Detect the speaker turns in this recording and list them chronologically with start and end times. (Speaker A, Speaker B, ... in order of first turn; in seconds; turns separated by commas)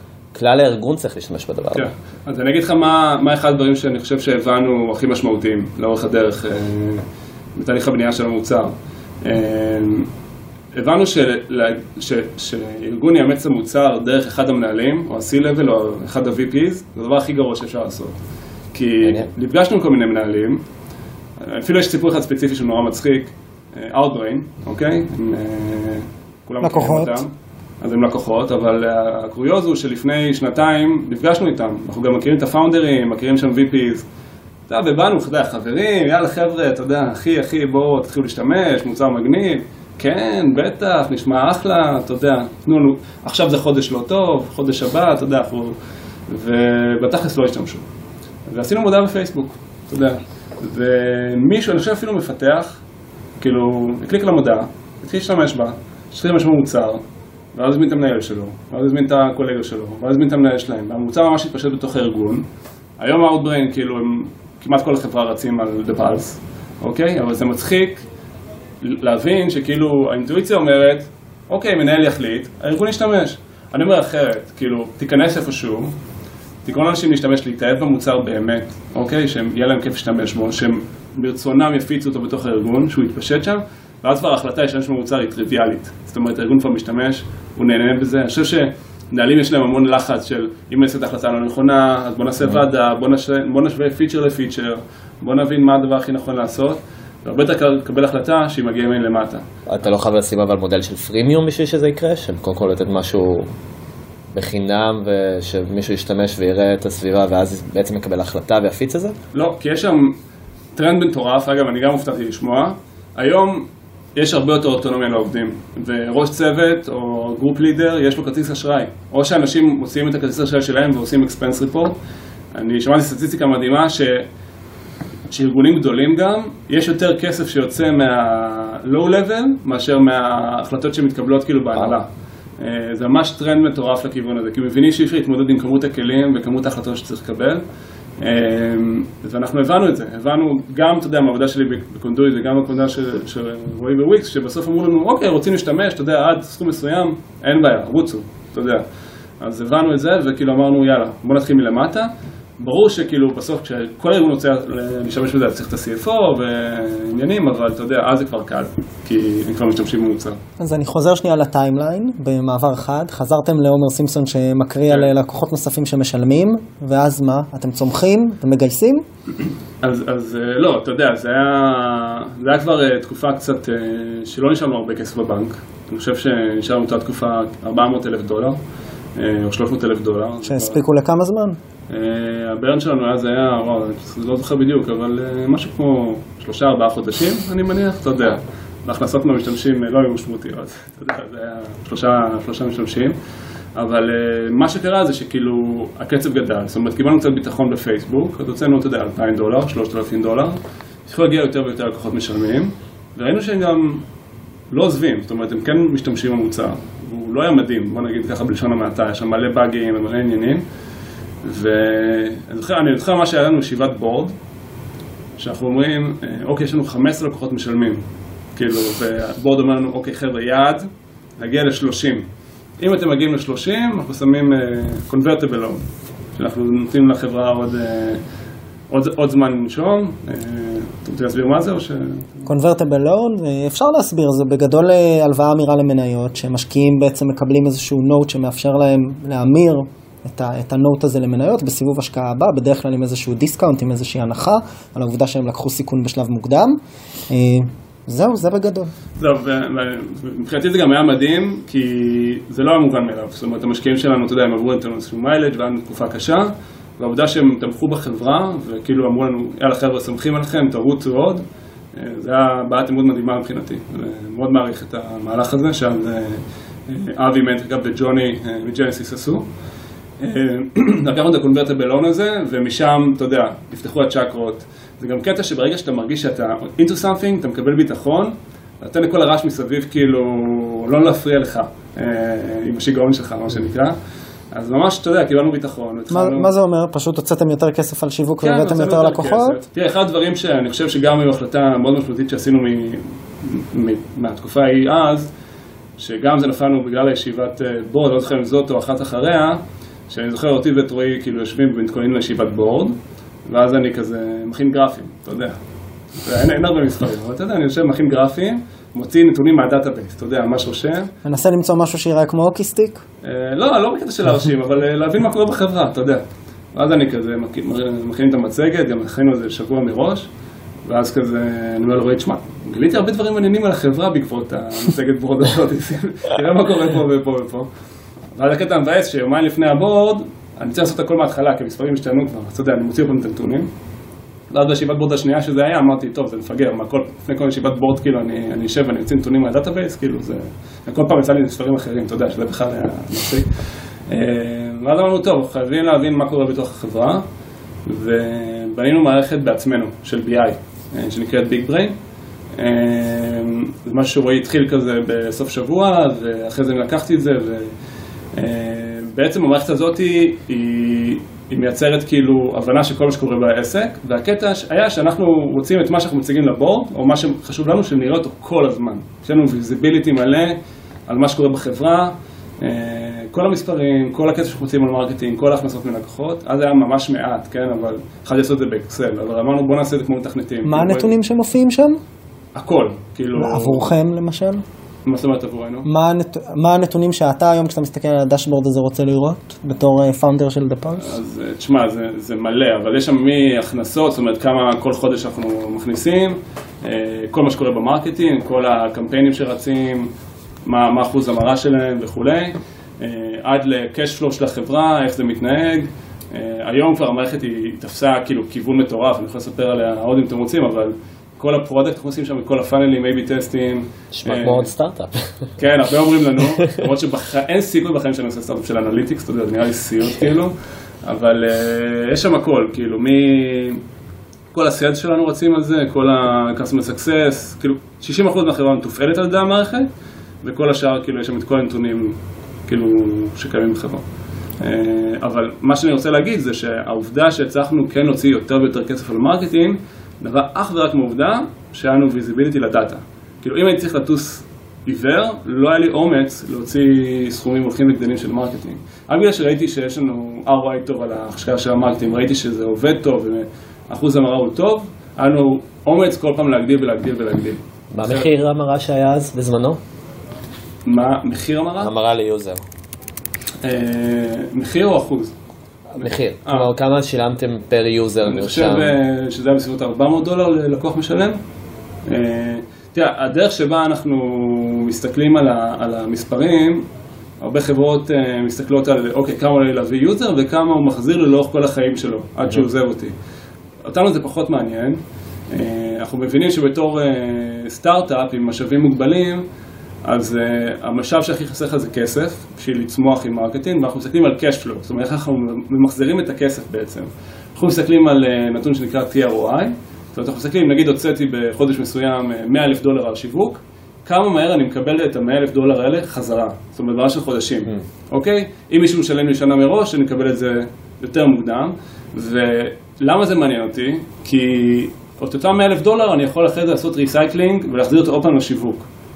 Speaker A: 0.3-1.9, Speaker B: 1.7-10.1, Speaker B: 10.7-18.1, Speaker B: 18.7-20.6, Speaker B: 21.4-34.0, Speaker C: 26.6-27.2, Speaker B: 34.7-45.7, Speaker B: 46.3-47.8, Speaker B: 48.5-52.8, Speaker B: 53.4-62.5, Speaker B: 63.0-68.1, Speaker B: 68.8-75.9, Speaker B: 76.6-99.4, Speaker A: 99.7-103.5, Speaker A: 104.3-109.1, Speaker B: 109.3-110.2, Speaker B: 110.7-121.9, Speaker B: 122.5-124.3, Speaker B: 125.3-132.1, Speaker B: 132.6-137.6, Speaker B: 138.2-148.8, Speaker B: 149.4-160.4, Speaker C: 160.6-169.0, Speaker B: 169.8-178.6, Speaker B: 179.2-180.8, Speaker C: 180.4-181.6, Speaker B: 181.9-193.1, Speaker B: 193.8-204.0, Speaker B: 204.7-210.6, Speaker B: 211.4-214.3, Speaker B: 215.4-218.0, Speaker B: 218.5-220.8, Speaker B: 221.4-222.3, Speaker B: 222.8-225.8, Speaker B: 226.3-228.2, Speaker B: 228.9-232.4, Speaker C: 232.4-246.8, Speaker C: 247.3-248.9, Speaker B: 249.2-269.4, Speaker B: 270.2-283.9, Speaker B: 284.5-286.5, Speaker C: 286.1-289.6, Speaker B: 288.4-295.3, Speaker B: 296.0-302.9, Speaker B: 303.4-305.6, Speaker B: 306.1-311.1, Speaker C: 311.2-313.0, Speaker B: 313.2-316.2, Speaker B: 316.7-320.3, Speaker B: 320.8-327.7, Speaker B: 328.3-333.7, Speaker B: 334.5-343.5, Speaker B: 344.1-347.2, Speaker B: 347.8-351.9, Speaker B: 352.6-357.7, Speaker B: 358.3-381.1, Speaker C: 380.6-382.0, Speaker B: 382.5-383.9, Speaker C: 383.4-384.6, Speaker B: 385.0-385.9, Speaker C: 385.8-391.2, Speaker B: 391.0-400.1, Speaker B: 400.6-414.7, Speaker A: 414.1-415.5, Speaker B: 415.6-423.8, Speaker B: 424.5-429.9, Speaker B: 430.4-434.0, Speaker B: 434.6-458.3, Speaker A: 457.9-459.8, Speaker B: 460.8-461.9, Speaker A: 461.8-462.6, Speaker B: 463.6-465.3, Speaker B: 465.9-466.7, Speaker A: 466.0-468.9, Speaker B: 468.2-471.4, Speaker B: 472.1-476.9, Speaker B: 477.4-483.1, Speaker B: 483.8-489.4, Speaker B: 490.0-518.9